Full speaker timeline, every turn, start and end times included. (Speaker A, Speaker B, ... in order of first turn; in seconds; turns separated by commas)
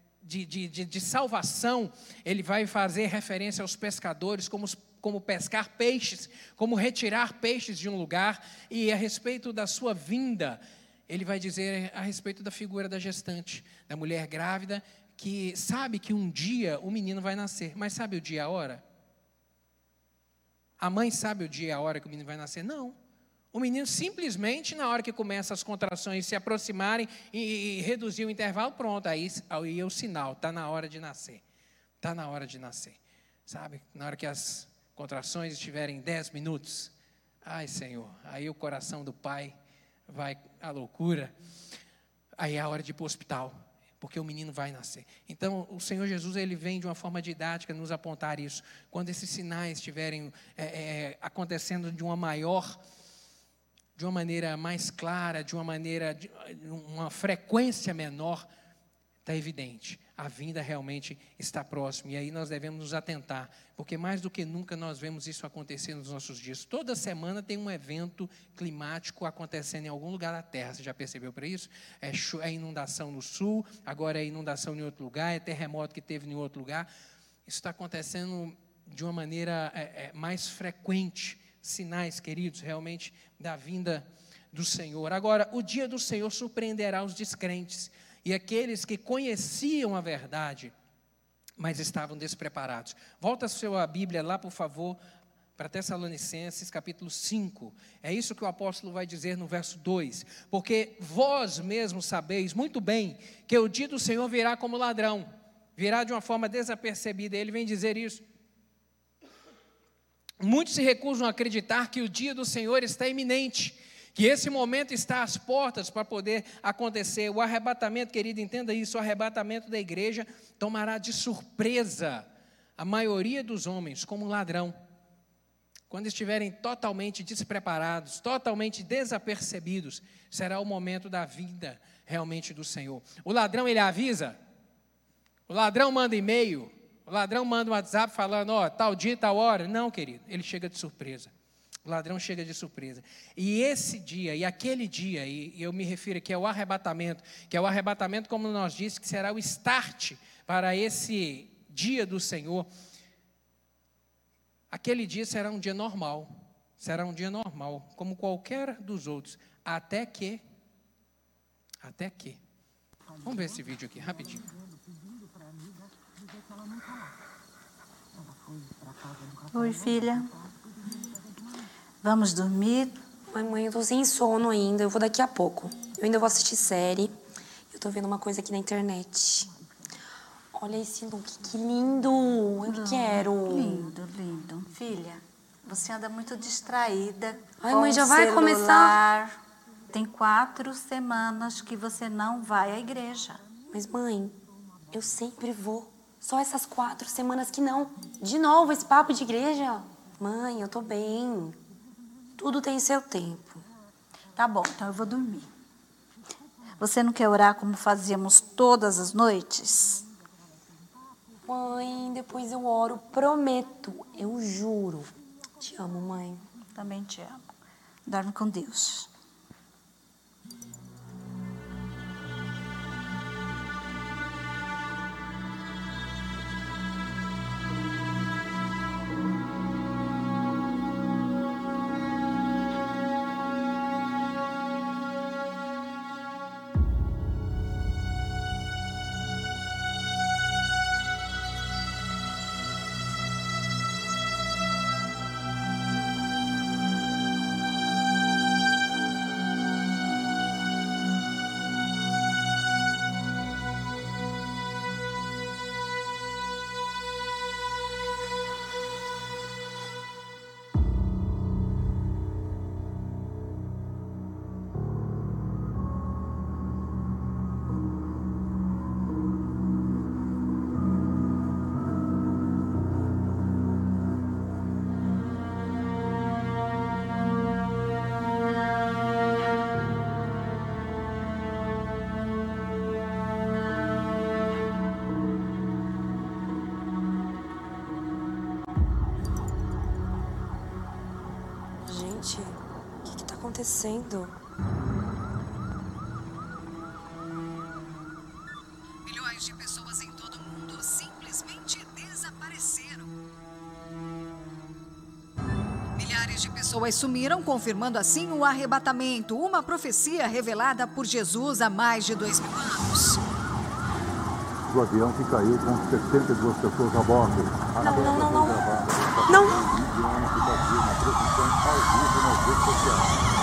Speaker A: 0.2-18.8, Speaker A: 20.8-22.9, Speaker A: 23.5-31.4, Speaker A: 32.0-36.9, Speaker A: 37.4-39.6, Speaker A: 40.1-41.3, Speaker A: 42.4-52.8, Speaker A: 54.0-58.5, Speaker A: 59.2-76.9, Speaker A: 77.5-90.7, Speaker A: 91.6-95.0, Speaker A: 95.6-108.2, Speaker A: 110.4-124.8, Speaker A: 125.9-134.4, Speaker A: 135.5-141.3, Speaker A: 141.9-152.7, Speaker A: 154.7-160.4, Speaker A: 161.8-162.4, Speaker A: 163.2-164.4, Speaker B: 169.5-170.3, Speaker B: 172.0-173.0, Speaker C: 173.3-177.1, Speaker C: 177.7-179.5, Speaker C: 180.5-183.9, Speaker B: 182.7-189.4, Speaker C: 187.6-189.0, Speaker B: 189.9-193.4, Speaker C: 193.7-194.4, Speaker C: 194.9-201.6, Speaker C: 202.4-203.6, Speaker B: 204.4-205.5, Speaker B: 206.8-210.0, Speaker C: 211.4-216.4, Speaker B: 216.7-217.4, Speaker B: 218.1-219.1, Speaker C: 291.8-294.4, Speaker D: 299.1-303.1, Speaker D: 305.9-313.3, Speaker E: 314.7-323.1, Speaker C: 317.8-319.7